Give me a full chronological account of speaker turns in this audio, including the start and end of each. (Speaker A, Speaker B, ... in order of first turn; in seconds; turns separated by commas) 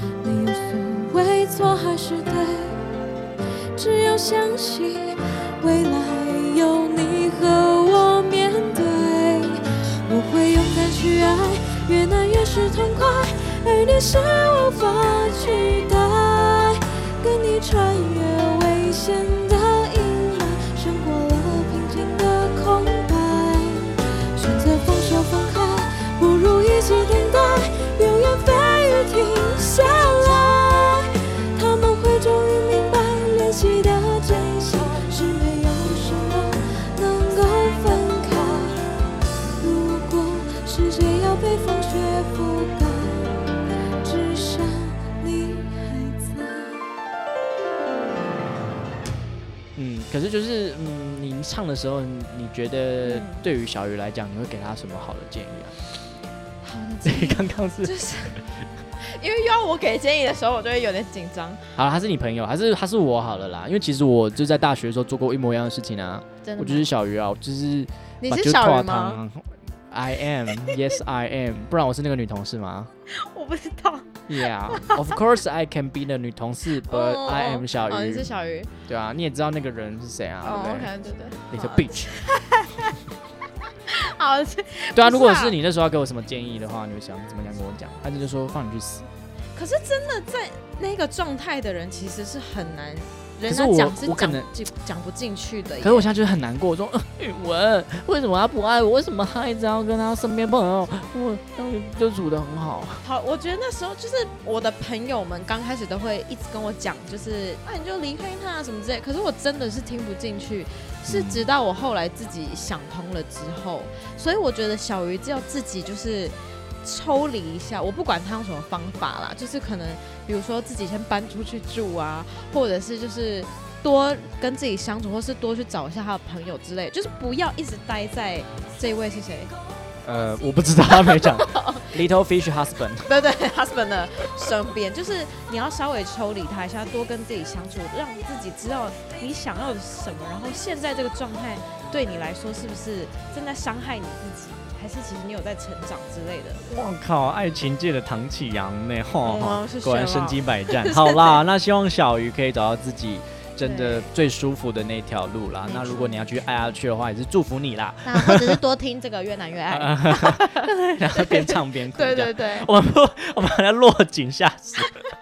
Speaker A: 0.2-2.8, Speaker A: 3.8-38.8, Speaker B: 6.4-6.9, Speaker B: 8.0-8.8, Speaker B: 10.4-11.2, Speaker B: 12.3-12.8, Speaker B: 17.2-18.1, Speaker B: 19.3-21.2, Speaker B: 22.1-23.0, Speaker B: 27.1-27.6, Speaker B: 29.4-29.8, Speaker A: 39.6-43.4, Speaker A: 44.0-46.9, Speaker C: 49.7-55.8, Speaker B: 53.0-53.4, Speaker B: 56.6-58.4, Speaker C: 57.0-57.9, Speaker B: 59.0-61.7, Speaker C: 61.7-72.9, Speaker B: 66.4-66.9, Speaker B: 68.2-69.2, Speaker B: 73.1-75.2, Speaker C: 74.3-78.3, Speaker B: 76.8-78.7, Speaker C: 78.9-80.9, Speaker B: 80.4-83.0, Speaker C: 81.5-82.1, Speaker B: 83.9-85.6, Speaker C: 84.9-89.1, Speaker B: 89.5-96.1, Speaker C: 93.5-94.5, Speaker C: 95.8-103.0, Speaker B: 103.0-129.5, Speaker C: 111.0-111.5, Speaker C: 130.0-133.1, Speaker B: 130.9-131.9, Speaker B: 133.0-146.7, Speaker C: 146.7-158.6, Speaker B: 149.2-151.4, Speaker B: 153.6-154.1, Speaker B: 155.7-156.1, Speaker B: 158.0-162.7, Speaker C: 159.7-164.9